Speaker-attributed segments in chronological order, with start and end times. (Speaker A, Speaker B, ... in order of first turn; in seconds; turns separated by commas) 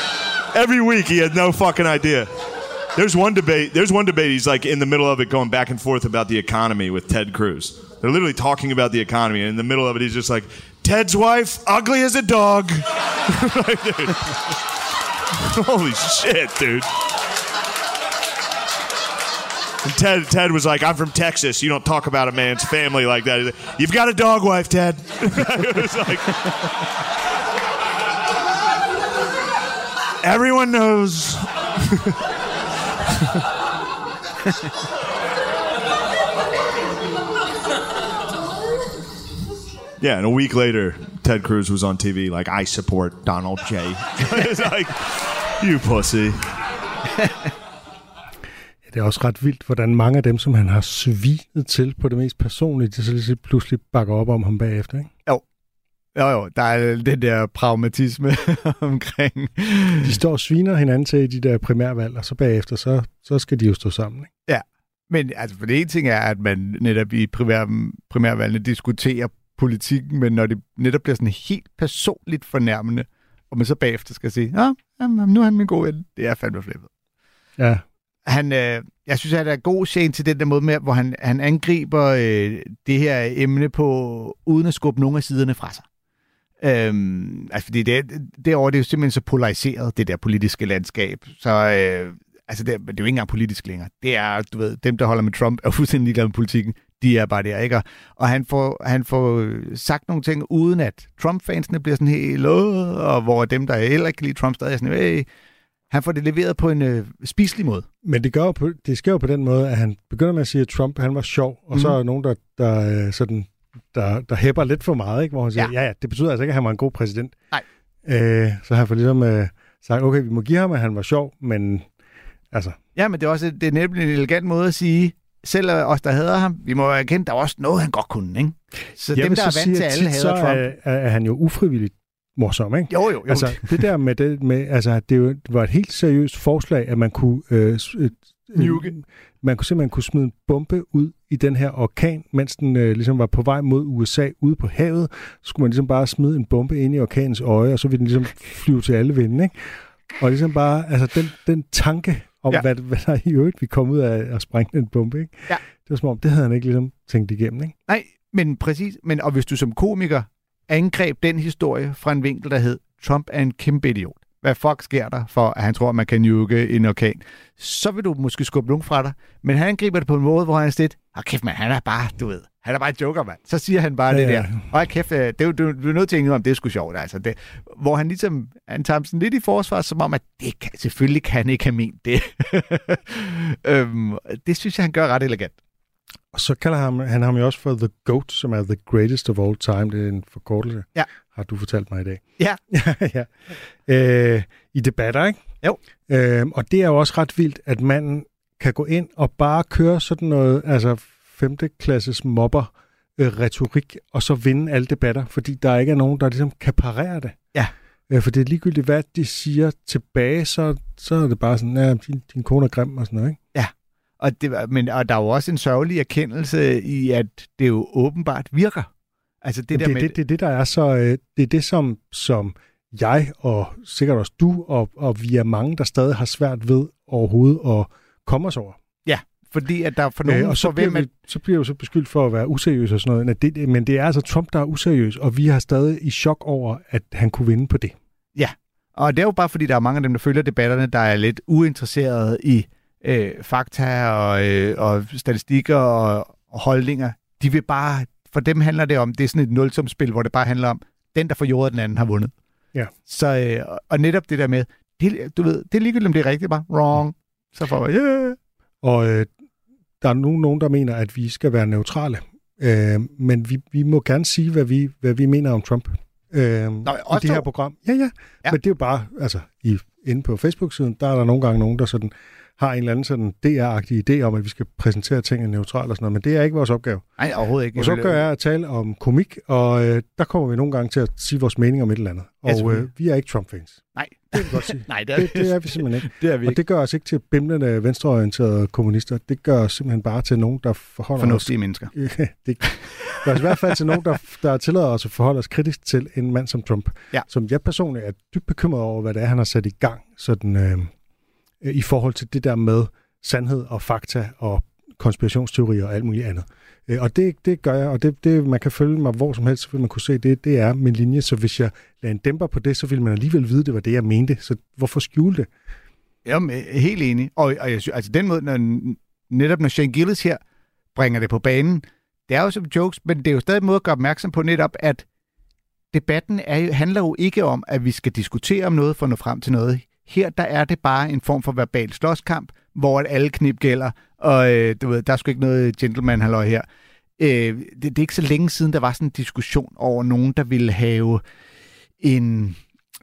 Speaker A: 0.5-2.3, Speaker A: 2.9-14.6, Speaker A: 15.3-16.9, Speaker A: 19.8-26.8, Speaker A: 30.2-32.1, Speaker A: 40.0-46.4, Speaker B: 47.2-47.5, Speaker C: 48.9-55.1, Speaker B: 56.1-60.1, Speaker C: 60.0-64.3, Speaker B: 64.5-76.9, Speaker C: 77.6-77.8, Speaker B: 78.2-85.8, Speaker B: 86.6-105.3, Speaker B: 105.9-107.8, Speaker C: 108.0-117.3, Speaker C: 118.0-121.9, Speaker C: 122.5-122.8, Speaker B: 122.9-130.7, Speaker C: 129.1-157.7, Speaker B: 132.9-133.7, Speaker B: 138.6-138.9, Speaker B: 157.9-185.5, Speaker C: 174.1-174.6, Speaker C: 186.3-195.4, Speaker C: 196.1-207.3, Speaker C: 208.1-213.4, Speaker B: 213.5-218.9, Speaker B: 219.4-220.2, Speaker C: 219.7-228.8, Speaker B: 229.1-231.1, Speaker C: 230.2-237.9, Speaker B: 238.3-252.3, Speaker B: 253.1-258.4, Speaker C: 258.8-259.3, Speaker C: 260.0-277.0, Speaker B: 266.8-267.5, Speaker B: 277.2-278.2, Speaker C: 277.7-283.8, Speaker B: 282.4-282.8, Speaker B: 283.9-286.6, Speaker C: 284.3-300.9, Speaker B: 291.2-291.9, Speaker B: 292.6-294.0, Speaker C: 301.6-315.5, Speaker B: 316.2-320.4, Speaker B: 320.9-325.0, Speaker B: 325.9-336.6, Speaker B: 337.2-341.2, Speaker B: 342.0-342.6